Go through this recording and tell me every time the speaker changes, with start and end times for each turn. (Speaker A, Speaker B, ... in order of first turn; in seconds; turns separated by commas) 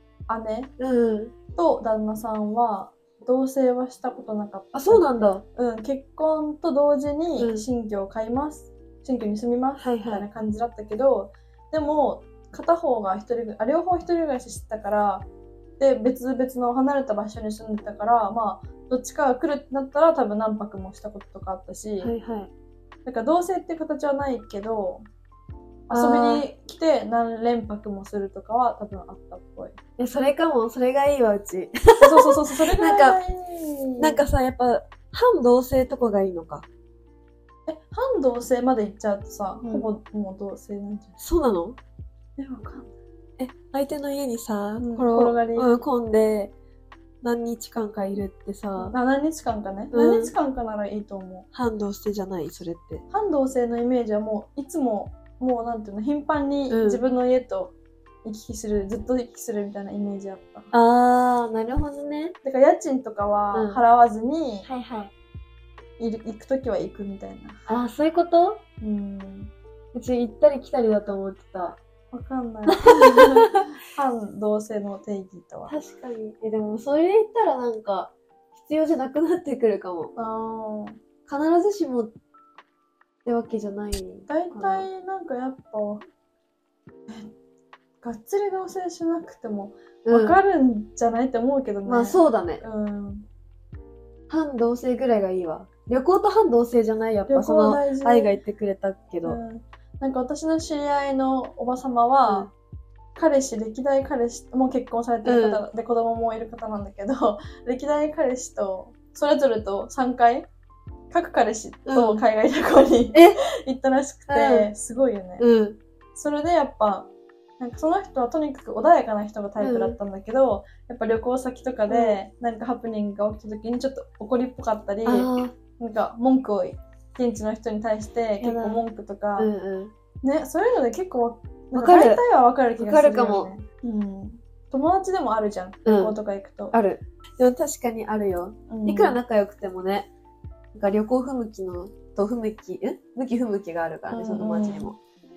Speaker A: 0.3-0.7, Speaker B: 0.8-1.3, Speaker A: 1.5-15.3, Speaker B: 4.7-5.4, Speaker B: 7.4-7.7, Speaker B: 9.8-10.2, Speaker A: 15.8-22.1, Speaker B: 22.0-22.5, Speaker A: 23.0-25.0, Speaker A: 25.9-29.8, Speaker B: 25.9-26.4, Speaker B: 30.0-33.2, Speaker A: 32.0-34.2, Speaker B: 34.0-36.6, Speaker A: 37.7-41.2, Speaker B: 41.2-41.8, Speaker A: 42.4-42.9, Speaker B: 43.4-46.5, Speaker A: 44.8-45.7, Speaker B: 47.2-48.9, Speaker A: 48.8-51.5, Speaker B: 49.9-50.3, Speaker B: 51.5-53.0, Speaker A: 53.1-60.7, Speaker B: 56.7-57.0, Speaker B: 60.7-62.3, Speaker A: 62.4-64.7, Speaker B: 63.5-63.8, Speaker B: 64.6-65.1, Speaker A: 66.0-67.6, Speaker B: 67.7-68.6, Speaker A: 68.8-69.5, Speaker B: 69.9-71.8, Speaker A: 72.1-75.7, Speaker B: 72.7-73.5, Speaker B: 75.7-80.1, Speaker A: 80.2-81.0, Speaker B: 81.2-82.1, Speaker B: 83.2-84.9, Speaker A: 84.3-86.0, Speaker A: 88.0-93.3, Speaker B: 90.0-90.4, Speaker B: 91.8-92.6, Speaker B: 94.3-99.4, Speaker A: 97.3-98.4, Speaker A: 99.2-102.5, Speaker A: 103.2-110.5, Speaker B: 105.2-105.6, Speaker A: 111.1-115.5, Speaker B: 111.8-112.2, Speaker B: 113.1-113.4, Speaker B: 114.3-114.7, Speaker B: 115.4-115.8, Speaker A: 116.1-129.5, Speaker B: 119.6-120.0, Speaker B: 121.9-122.2, Speaker B: 125.0-125.5, Speaker B: 128.4-128.8, Speaker B: 129.4-129.9, Speaker A: 130.2-136.7, Speaker B: 131.7-132.2, Speaker B: 132.8-133.5, Speaker B: 135.8-136.2, Speaker B: 136.7-140.1, Speaker A: 138.7-139.2, Speaker B: 140.7-145.0, Speaker A: 144.1-144.9